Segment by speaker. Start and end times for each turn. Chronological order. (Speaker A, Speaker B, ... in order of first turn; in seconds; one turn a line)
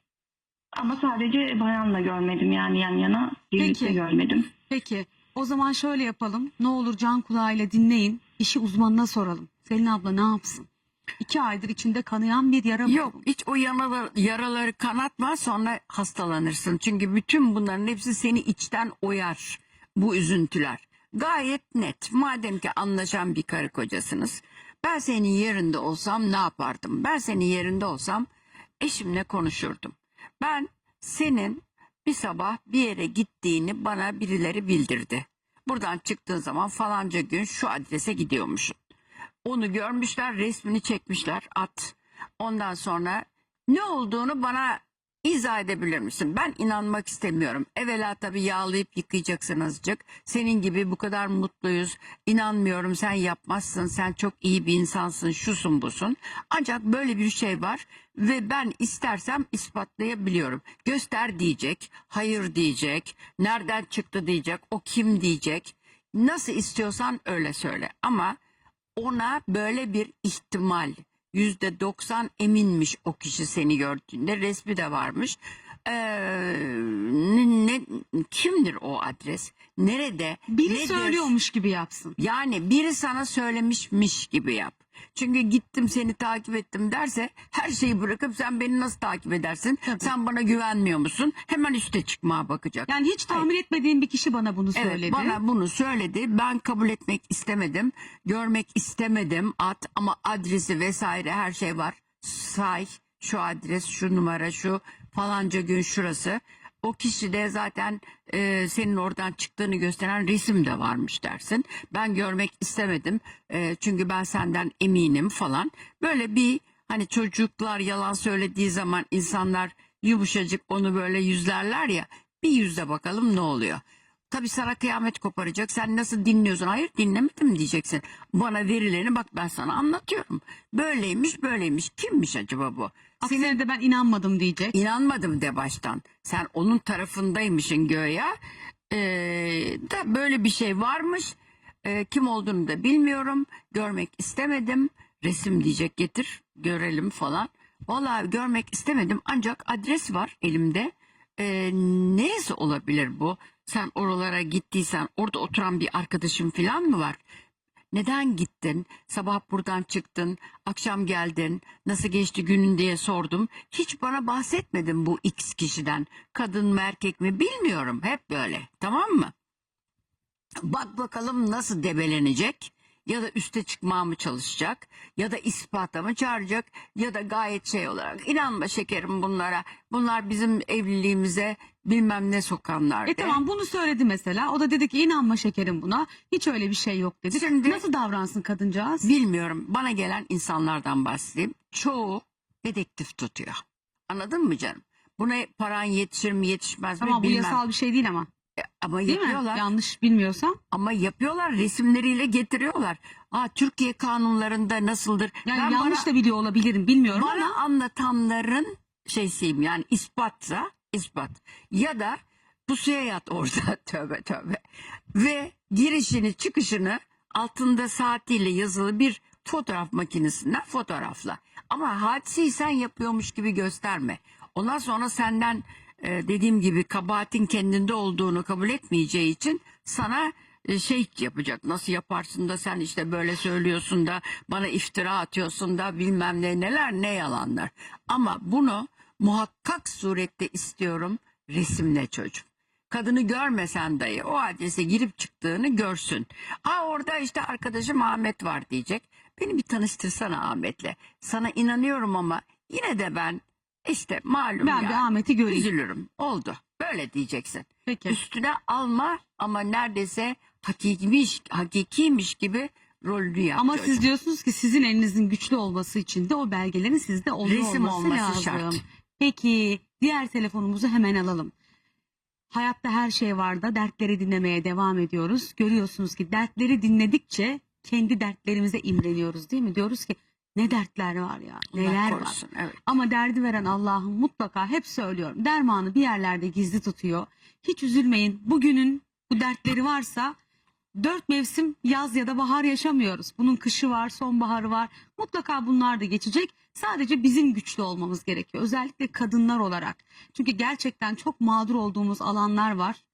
Speaker A: 0.7-4.5
Speaker B: 3.6-4.0
Speaker B: 4.7-10.7
Speaker B: 11.2-13.2
Speaker C: 12.8-28.3
Speaker C: 28.8-38.8
Speaker C: 39.4-68.4
Speaker C: 69.0-81.3
Speaker B: 80.5-82.2
Speaker C: 82.2-93.5
Speaker B: 92.9-95.4
Speaker C: 94.8-133.6
Speaker B: 133.2-134.8
Speaker C: 134.7-138.3
Speaker C: 138.9-157.2
Speaker C: 157.9-169.3
Speaker C: 170.6-183.4
Speaker B: 183.1-189.1
Speaker C: 187.3-187.8
Speaker C: 189.0-197.6
Speaker B: 197.0-198.3
Speaker C: 198.6-199.7
Speaker B: 199.1-200.6
Speaker C: 200.7-206.1
Speaker B: 205.4-207.6
Speaker C: 207.1-214.6
Speaker C: 215.2-264.0
Speaker B: 254.6-255.7
Speaker B: 257.9-258.2
Speaker B: 263.6-271.5
Speaker C: 267.4-268.8
Speaker B: 272.5-290.4
Speaker C: 281.7-282.8
Speaker B: 291.0-303.0